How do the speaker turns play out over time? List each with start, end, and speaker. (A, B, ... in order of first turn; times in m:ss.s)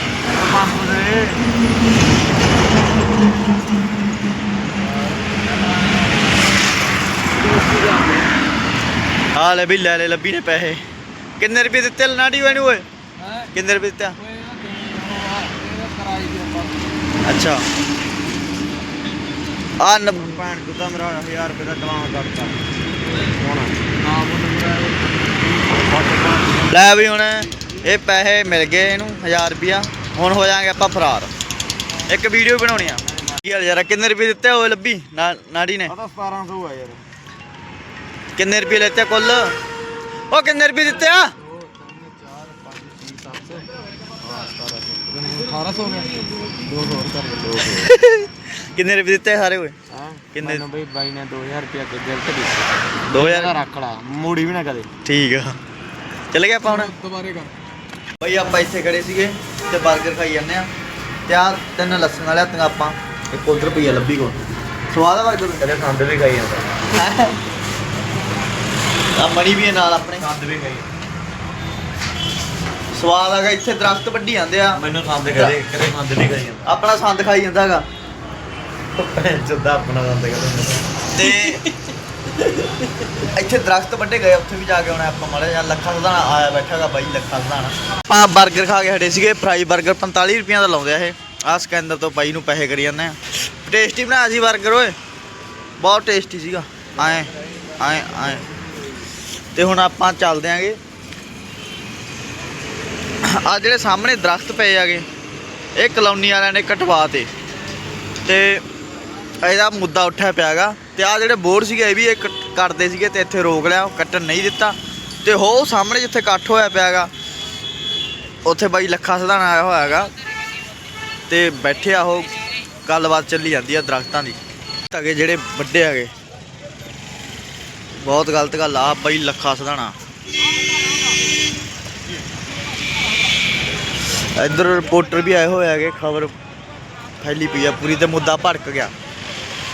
0:00.3-0:01.4 A
0:07.7-0:08.0 A
0:09.3-0:10.8 B
0:11.4-0:12.8 B
0:13.5-0:14.2 B
0:14.2-0:16.7 C
0:17.2-0:17.6 B
0:19.8-0:20.4 B
0:20.1-0:22.6 A
0:23.2-0:26.7 A
0:26.7-0:31.3 B
0:32.1-0:35.9 B
0:35.9-0:37.0 A
0:38.4-0:39.6 B
0:40.3-0:41.3 B
0:41.6-0:43.7 A
0:44.2-0:46.1 A
0:46.6-0:47.9 A
0:47.6-0:49.7 B
0:49.9-0:54.9 A
0:50.3-0:50.6 B
0:53.1-0:53.6 B
0:55.0-0:55.6 B
0:56.3-0:56.9 B
0:58.2-1:00.7 B
1:01.3-1:04.4 B
1:04.9-1:05.6 B
1:05.6-1:06.7 A
1:06.9-1:07.4 B
1:09.2-1:10.3 B
1:10.2-1:10.8 A
1:12.9-1:15.6 B
1:14.7-1:16.7 A
1:16.6-1:17.8 B
1:19.0-1:21.5 A
1:21.1-1:21.6 B
1:23.3-1:35.0 B
1:35.8-1:38.4 B
1:39.5-1:40.8 B
1:43.3-1:45.0 B
1:45.8-1:47.3 B
1:48.2-1:48.6 B
1:49.4-1:57.1 B
1:58.4-2:00.1 B
2:01.3-2:02.3 B
2:02.8-2:04.4 B
2:04.9-2:06.1 B
2:08.0-2:09.9 B
2:14.4-2:16.3 B
2:17.2-2:18.9 B